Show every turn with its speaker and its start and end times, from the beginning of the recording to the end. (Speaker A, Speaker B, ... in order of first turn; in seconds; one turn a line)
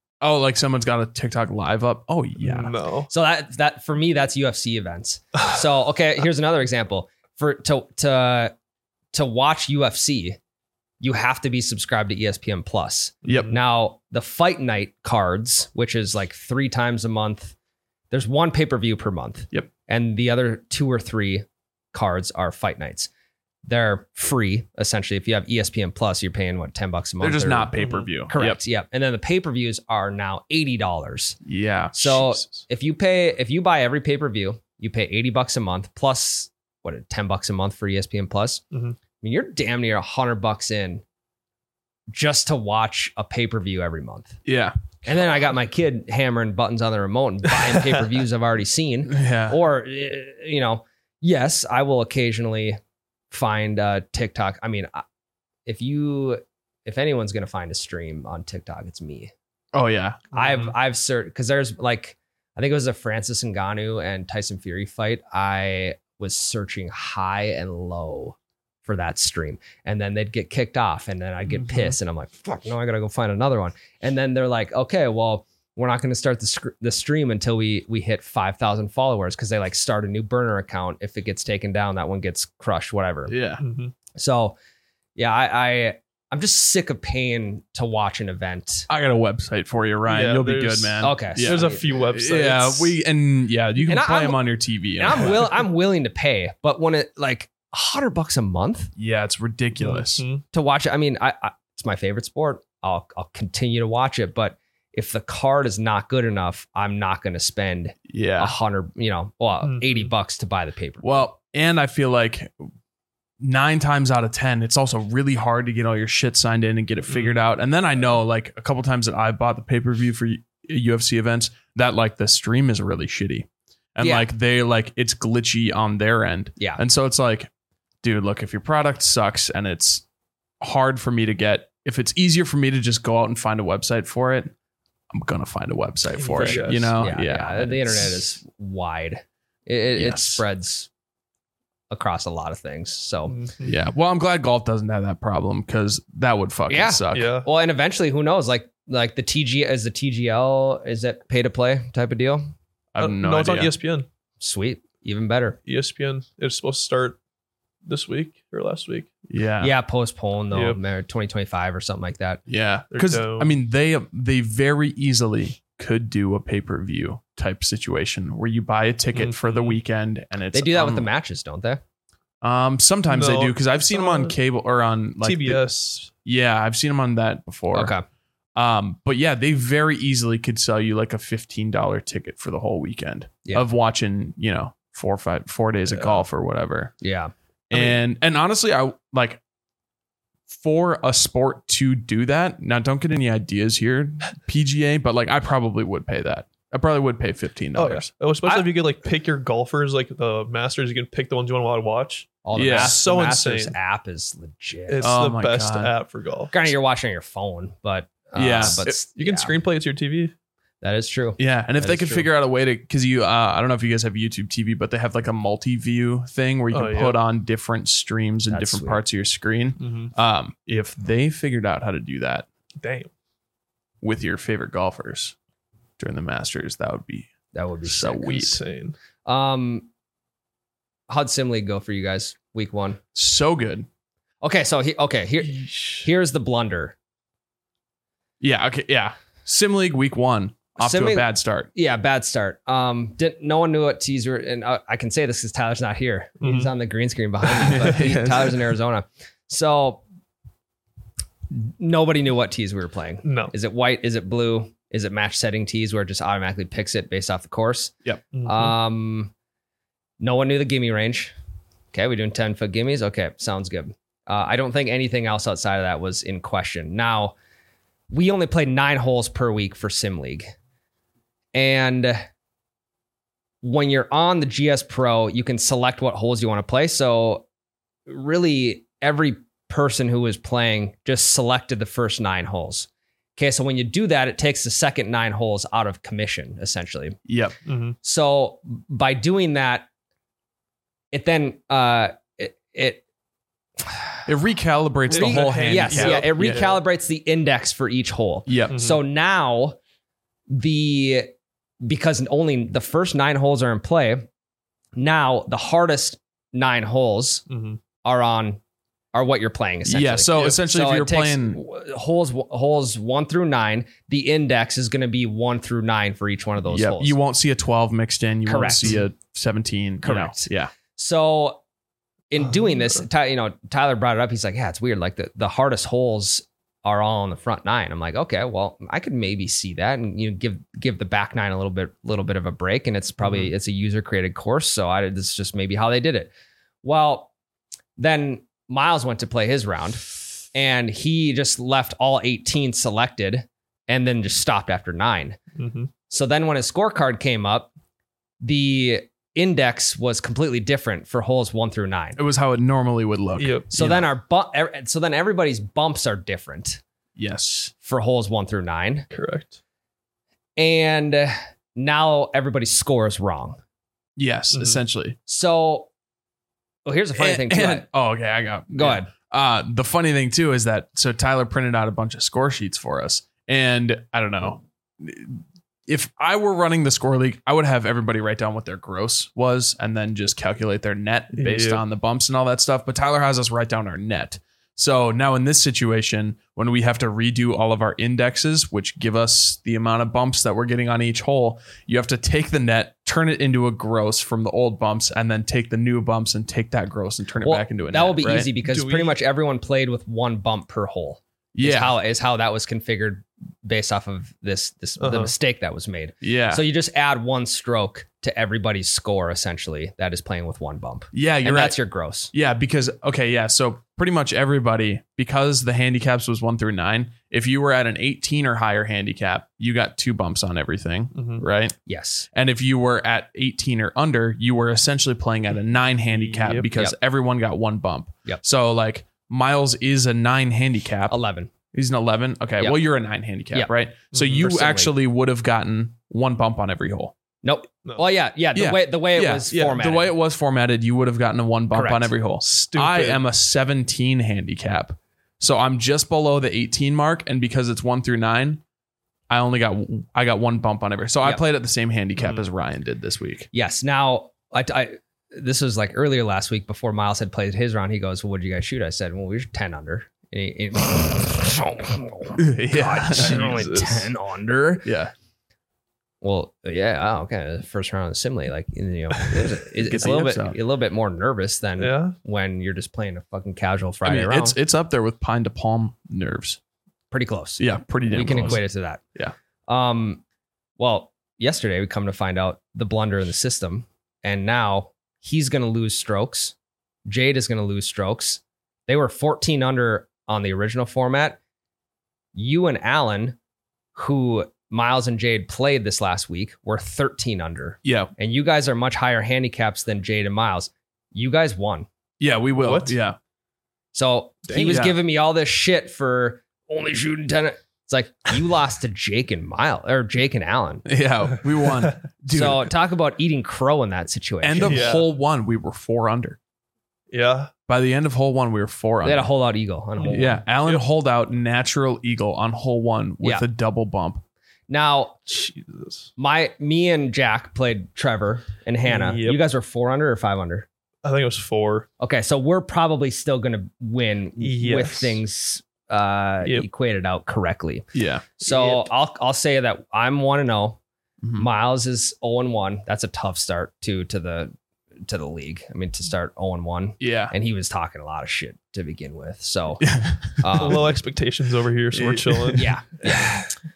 Speaker A: 0.2-2.7
Speaker B: 2.4-3.1
Speaker C: 2.5-8.5
Speaker C: 9.1-10.4
Speaker C: 11.0-17.5
Speaker A: 13.2-13.5
Speaker B: 13.2-13.5
Speaker C: 18.1-23.1
Speaker C: 23.6-31.4
Speaker A: 27.2-28.6
Speaker B: 27.8-28.1
Speaker A: 31.4-32.5
Speaker C: 31.9-38.6
Speaker B: 38.7-39.0
Speaker C: 39.2-41.0
Speaker C: 42.1-44.4
Speaker A: 44.4-44.8
Speaker C: 45.0-52.8
Speaker A: 49.1-49.6
Speaker C: 53.3-55.0
Speaker C: 55.6-59.3
Speaker A: 59.7-60.3
Speaker C: 60.3-83.3
Speaker B: 60.4-60.6
Speaker A: 71.5-72.0
Speaker A: 83.3-83.6
Speaker B: 83.6-83.9
Speaker C: 84.1-84.6
Speaker C: 85.2-88.9
Speaker A: 88.9-95.5
Speaker B: 90.1-93.0
Speaker C: 91.0-91.8
Speaker C: 93.8-94.4
Speaker C: 95.0-98.9
Speaker A: 99.0-100.2
Speaker B: 99.8-100.4
Speaker C: 100.5-111.2
Speaker A: 108.1-108.5
Speaker B: 109.6-110.1
Speaker A: 111.0-112.7
Speaker A: 113.4-127.5
Speaker B: 117.1-117.4
Speaker C: 124.0-124.3
Speaker A: 128.0-130.0
Speaker A: 130.6-134.5
Speaker A: 135.1-138.2
Speaker B: 136.2-136.9
Speaker C: 136.4-140.9
Speaker A: 139.9-140.4
Speaker C: 141.9-143.3
Speaker B: 143.3-143.8
Speaker A: 143.6-147.3
Speaker C: 146.7-152.4
Speaker B: 147.1-147.5
Speaker A: 152.9-153.7
Speaker B: 153.0-154.1
Speaker C: 154.4-155.6
Speaker B: 155.7-157.2
Speaker B: 157.8-159.1
Speaker A: 159.3-159.7
Speaker C: 159.6-162.4
Speaker B: 160.5-160.8
Speaker A: 162.5-171.1
Speaker B: 162.9-163.5
Speaker B: 169.1-169.8
Speaker C: 170.5-171.8
Speaker A: 172.4-175.6
Speaker B: 173.1-174.3
Speaker B: 175.2-176.1
Speaker A: 176.2-177.9
Speaker C: 177.7-178.0
Speaker A: 178.6-186.9
Speaker B: 185.9-186.2
Speaker C: 187.0-187.3
Speaker A: 187.7-189.4
Speaker B: 187.7-188.0
Speaker A: 190.5-198.1
Speaker B: 197.8-203.8
Speaker C: 198.4-198.7
Speaker C: 202.4-205.1
Speaker A: 202.5-203.0
Speaker B: 204.9-206.7
Speaker A: 205.0-205.9
Speaker C: 206.5-209.5
Speaker A: 208.3-208.9
Speaker B: 208.6-210.3
Speaker C: 210.8-212.3
Speaker A: 211.4-222.5
Speaker B: 216.7-217.2
Speaker C: 218.5-219.0
Speaker B: 219.8-220.1
Speaker B: 222.8-223.1
Speaker A: 224.0-225.3
Speaker A: 226.0-227.3
Speaker C: 227.5-228.6
Speaker A: 227.8-228.6
Speaker B: 228.3-228.9
Speaker C: 229.2-229.9
Speaker C: 231.1-233.0
Speaker A: 233.1-233.9
Speaker C: 234.4-236.9
Speaker B: 235.4-236.1
Speaker A: 238.4-241.7
Speaker C: 240.8-250.0
Speaker B: 246.4-246.7
Speaker A: 247.6-248.6
Speaker C: 251.5-257.9
Speaker B: 253.2-253.5
Speaker B: 258.3-258.8
Speaker C: 258.4-259.3
Speaker C: 260.2-261.3
Speaker C: 261.9-267.4
Speaker C: 268.1-270.5
Speaker C: 271.5-272.2
Speaker C: 273.6-277.4
Speaker C: 278.1-287.2
Speaker A: 287.3-287.6
Speaker B: 287.6-288.0
Speaker C: 288.0-289.9
Speaker C: 291.1-293.0
Speaker A: 294.2-296.6
Speaker B: 295.1-296.8
Speaker C: 295.1-299.8
Speaker A: 298.5-298.8
Speaker B: 298.7-299.0
Speaker C: 300.5-301.3
Speaker C: 301.8-304.3
Speaker C: 304.9-307.4
Speaker B: 307.5-307.8
Speaker C: 308.0-308.6
Speaker C: 309.1-317.1
Speaker A: 309.8-311.6
Speaker A: 316.7-320.7
Speaker C: 318.4-319.0
Speaker C: 320.0-321.6
Speaker C: 322.3-336.3
Speaker B: 322.5-323.0
Speaker C: 336.8-337.3
Speaker C: 338.0-345.4
Speaker B: 345.5-345.9
Speaker C: 346.1-347.7
Speaker C: 348.4-352.2
Speaker A: 352.1-354.1
Speaker B: 353.4-353.6
Speaker C: 353.7-356.8
Speaker A: 357.1-357.7
Speaker C: 357.8-359.1
Speaker B: 359.1-359.6
Speaker C: 360.6-363.6
Speaker A: 364.2-365.2
Speaker B: 364.5-364.8
Speaker C: 365.3-365.9
Speaker C: 366.8-367.9
Speaker A: 367.1-398.5
Speaker C: 368.7-369.1
Speaker B: 381.3-381.8
Speaker C: 397.4-412.3
Speaker B: 398.6-399.2
Speaker A: 401.5-401.9
Speaker B: 405.0-405.3
Speaker A: 406.2-406.6
Speaker A: 411.1-411.8
Speaker A: 412.3-421.7
Speaker B: 421.1-421.4
Speaker C: 421.9-422.3
Speaker A: 422.3-431.1
Speaker B: 426.1-426.7
Speaker C: 431.1-431.5
Speaker A: 431.7-437.1
Speaker B: 434.1-434.4
Speaker C: 434.4-434.9
Speaker C: 437.4-440.1
Speaker A: 438.5-448.6
Speaker B: 439.5-439.8
Speaker C: 441.7-442.1
Speaker B: 442.4-443.2
Speaker A: 449.3-453.5
Speaker B: 452.2-452.4
Speaker C: 453.5-464.9
Speaker A: 462.4-463.6
Speaker B: 463.1-464.1
Speaker A: 464.8-465.1
Speaker C: 466.2-474.6
Speaker A: 469.7-470.6
Speaker B: 471.8-472.1
Speaker A: 474.0-476.6
Speaker C: 477.1-479.0
Speaker A: 477.6-478.6
Speaker C: 479.7-480.2
Speaker C: 480.8-486.5
Speaker C: 487.1-491.4
Speaker C: 492.3-493.4
Speaker C: 493.9-501.9
Speaker A: 497.8-498.1
Speaker A: 502.2-503.2
Speaker B: 502.6-502.9
Speaker C: 503.9-510.8
Speaker A: 504.5-505.0
Speaker A: 510.9-512.7
Speaker C: 512.3-515.0
Speaker A: 514.4-516.4
Speaker B: 514.6-515.0
Speaker B: 517.1-517.5
Speaker A: 517.7-519.3
Speaker C: 519.0-520.4
Speaker B: 520.0-520.8
Speaker A: 520.1-524.2
Speaker C: 524.7-525.2
Speaker B: 525.3-526.1
Speaker C: 526.2-530.7
Speaker B: 528.8-529.4
Speaker B: 531.0-531.9
Speaker C: 532.0-537.9
Speaker B: 534.4-535.2
Speaker A: 537.9-538.2
Speaker C: 538.4-540.8
Speaker B: 538.4-538.9
Speaker A: 541.2-541.5
Speaker C: 541.4-544.5
Speaker C: 545.0-550.9
Speaker A: 547.0-547.3
Speaker A: 549.8-550.8
Speaker B: 550.5-553.5
Speaker A: 551.9-552.7
Speaker C: 552.5-553.5